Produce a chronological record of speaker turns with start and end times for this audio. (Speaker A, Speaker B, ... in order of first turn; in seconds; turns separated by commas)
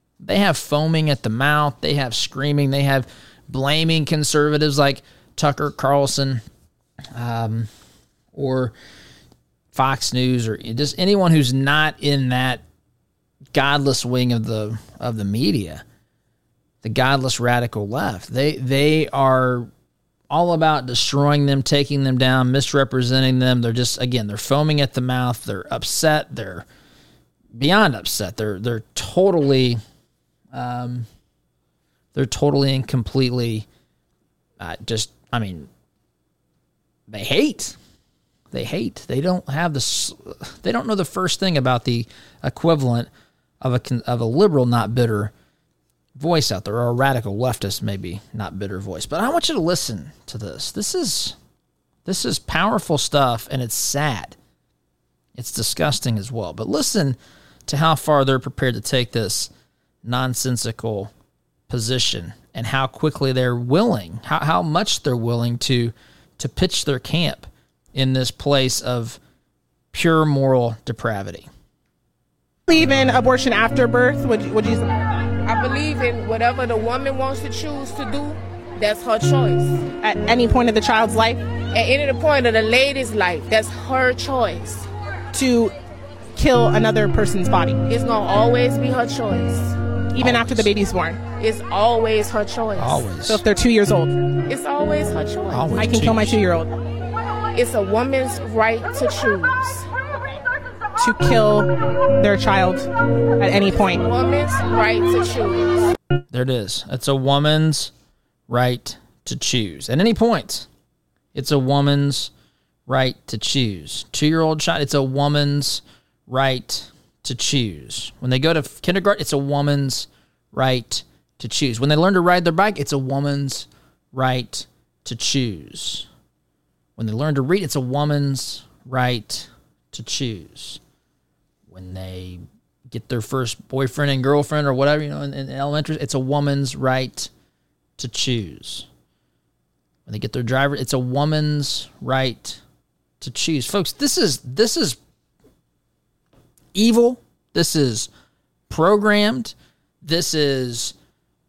Speaker A: 0.2-6.4, Speaker A: 7.1-7.7, Speaker A: 8.3-8.7, Speaker A: 9.7-12.6, Speaker A: 13.5-15.8, Speaker A: 16.8-19.7, Speaker A: 20.3-26.6, Speaker A: 27.5-29.8, Speaker A: 30.5-31.1, Speaker A: 32.1-33.7, Speaker A: 34.6-35.7, Speaker A: 37.1-37.8, Speaker A: 38.5-43.1, Speaker A: 43.6-45.3, Speaker A: 46.1-51.4, Speaker A: 52.0-54.4, Speaker A: 55.4-59.5, Speaker A: 60.0-61.1, Speaker A: 61.7-69.2, Speaker A: 69.9-71.5, Speaker B: 72.7-74.9, Speaker C: 75.4-79.9, Speaker B: 80.0-81.4, Speaker C: 81.7-84.9, Speaker B: 85.3-85.7, Speaker B: 86.3-87.8, Speaker C: 87.9-89.7, Speaker B: 90.1-91.2, Speaker A: 90.2-90.7, Speaker C: 91.4-93.0, Speaker A: 92.8-93.4, Speaker B: 93.2-94.1, Speaker C: 94.5-95.8, Speaker A: 95.5-96.4, Speaker B: 95.8-96.7, Speaker C: 97.5-99.9, Speaker B: 101.0-101.7, Speaker B: 102.2-102.9, Speaker B: 103.4-104.0, Speaker C: 103.9-105.9, Speaker A: 106.3-107.9, Speaker A: 108.5-110.7, Speaker A: 111.3-112.3, Speaker A: 112.9-126.1, Speaker A: 127.0-130.8, Speaker A: 131.7-137.3, Speaker A: 138.0-138.9, Speaker A: 140.1-142.6, Speaker A: 143.2-145.0, Speaker A: 146.7-148.1, Speaker A: 148.7-150.9